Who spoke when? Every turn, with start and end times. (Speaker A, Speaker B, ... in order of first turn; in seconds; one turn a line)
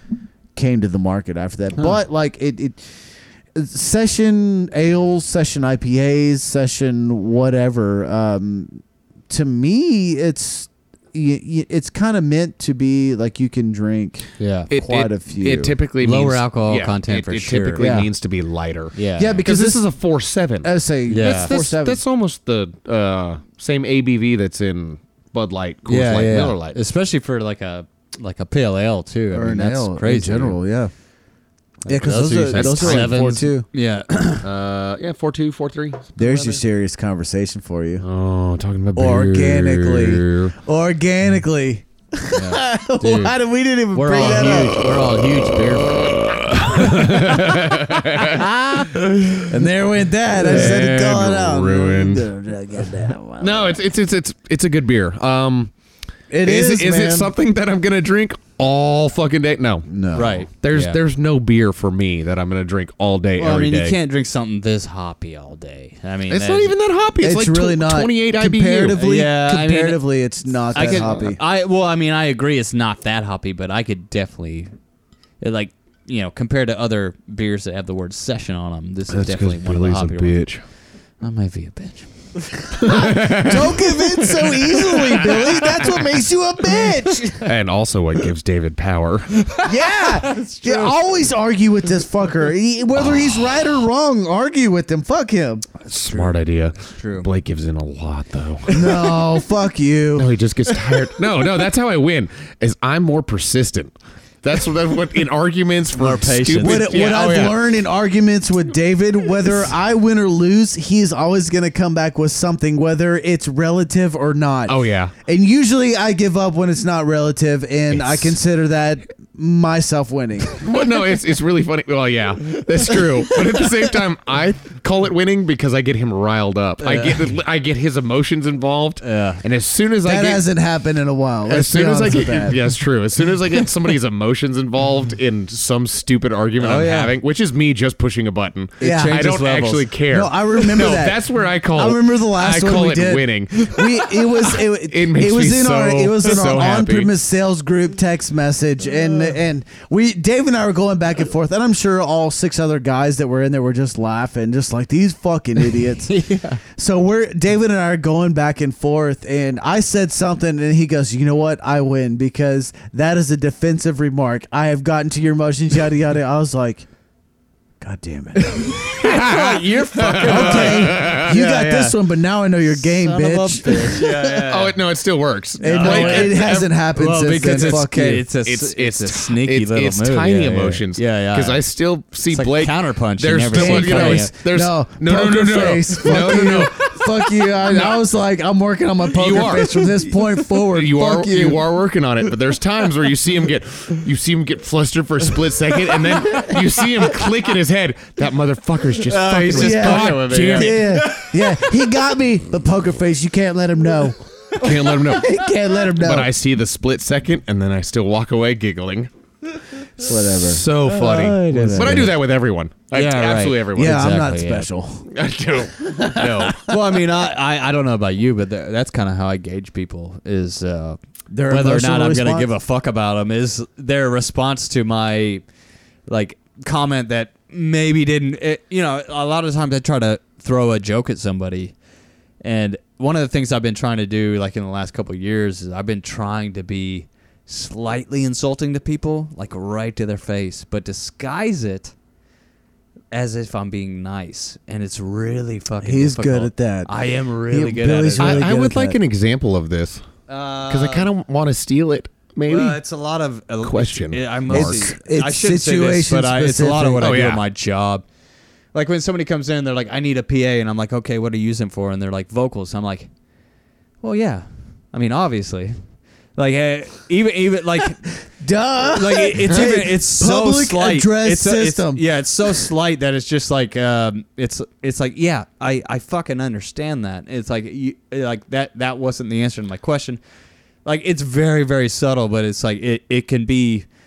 Speaker A: 0.6-15.7
Speaker B: 14.4-14.7
Speaker C: 14.7-26.8
Speaker B: 16.0-17.9
Speaker A: 17.8-18.1
Speaker B: 18.9-19.4
Speaker A: 19.2-19.8
Speaker A: 20.6-22.0
Speaker B: 21.1-21.5
Speaker B: 25.9-30.6
Speaker A: 29.3-30.9
Speaker B: 31.9-34.5
Speaker A: 31.9-33.6
Speaker C: 32.5-33.2
Speaker C: 34.4-36.6
Speaker A: 36.2-38.0
Speaker C: 38.0-40.5
Speaker A: 39.0-44.9
Speaker B: 42.3-43.4
Speaker B: 43.9-46.0
Speaker C: 44.5-49.5
Speaker A: 46.8-47.4
Speaker B: 46.9-47.1
Speaker A: 49.5-53.8
Speaker C: 50.4-52.3
Speaker B: 50.5-50.8
Speaker C: 53.4-55.7
Speaker A: 56.3-57.3
Speaker C: 56.4-59.9
Speaker A: 59.9-60.4
Speaker B: 60.1-61.0
Speaker C: 60.5-64.0
Speaker B: 63.4-66.7
Speaker C: 66.3-69.0
Speaker A: 67.2-71.4
Speaker B: 69.0-70.0
Speaker B: 70.7-74.7
Speaker B: 75.4-80.3
Speaker C: 79.1-80.6
Speaker B: 81.2-82.1
Speaker C: 82.7-86.1
Speaker A: 82.9-87.5
Speaker C: 87.4-89.6
Speaker B: 89.5-91.0
Speaker A: 89.7-95.7
Speaker C: 93.2-93.6
Speaker C: 95.9-98.8
Speaker B: 96.1-96.3
Speaker B: 96.9-97.3
Speaker B: 98.7-99.2
Speaker A: 98.7-100.3
Speaker C: 100.2-107.6
Speaker B: 106.0-106.9
Speaker A: 106.6-120.6
Speaker C: 114.7-115.1
Speaker C: 117.9-118.4
Speaker C: 120.5-130.4
Speaker B: 126.8-127.3
Speaker B: 129.0-129.4
Speaker A: 130.0-132.8
Speaker C: 131.5-147.1
Speaker B: 136.6-137.1
Speaker B: 138.8-139.9
Speaker A: 138.8-139.3
Speaker A: 140.1-156.1
Speaker B: 156.0-156.6
Speaker A: 156.7-166.9
Speaker A: 167.8-168.8
Speaker B: 168.4-172.0
Speaker C: 168.8-171.4
Speaker A: 170.2-174.1
Speaker B: 172.9-174.8
Speaker C: 174.0-176.7
Speaker A: 175.6-178.2
Speaker B: 175.6-181.6
Speaker C: 177.5-177.8
Speaker C: 178.4-187.0
Speaker B: 182.3-184.3
Speaker A: 183.5-191.7
Speaker B: 186.0-187.0
Speaker C: 187.7-188.0
Speaker C: 189.1-189.7
Speaker B: 189.4-190.1
Speaker C: 190.7-200.9
Speaker B: 196.2-196.6
Speaker B: 199.1-201.7
Speaker A: 199.5-206.3
Speaker C: 204.6-209.1
Speaker B: 204.6-205.0
Speaker A: 210.0-212.2
Speaker C: 210.0-214.1
Speaker B: 211.1-212.1
Speaker B: 212.9-214.7
Speaker A: 213.8-215.1
Speaker C: 215.1-216.7
Speaker A: 215.8-216.8
Speaker B: 216.6-225.4
Speaker A: 221.3-222.5
Speaker B: 226.1-231.8
Speaker B: 232.4-241.9
Speaker B: 243.1-248.5
Speaker A: 245.8-246.9
Speaker A: 247.5-249.0
Speaker C: 248.2-250.1
Speaker B: 250.3-251.1
Speaker C: 250.7-252.8
Speaker B: 252.5-258.1
Speaker C: 253.6-254.8
Speaker A: 254.5-257.1
Speaker C: 257.0-257.4
Speaker B: 258.7-263.1
Speaker B: 264.0-265.8
Speaker B: 266.4-268.1
Speaker A: 268.4-272.0
Speaker B: 268.8-280.2
Speaker B: 280.9-283.9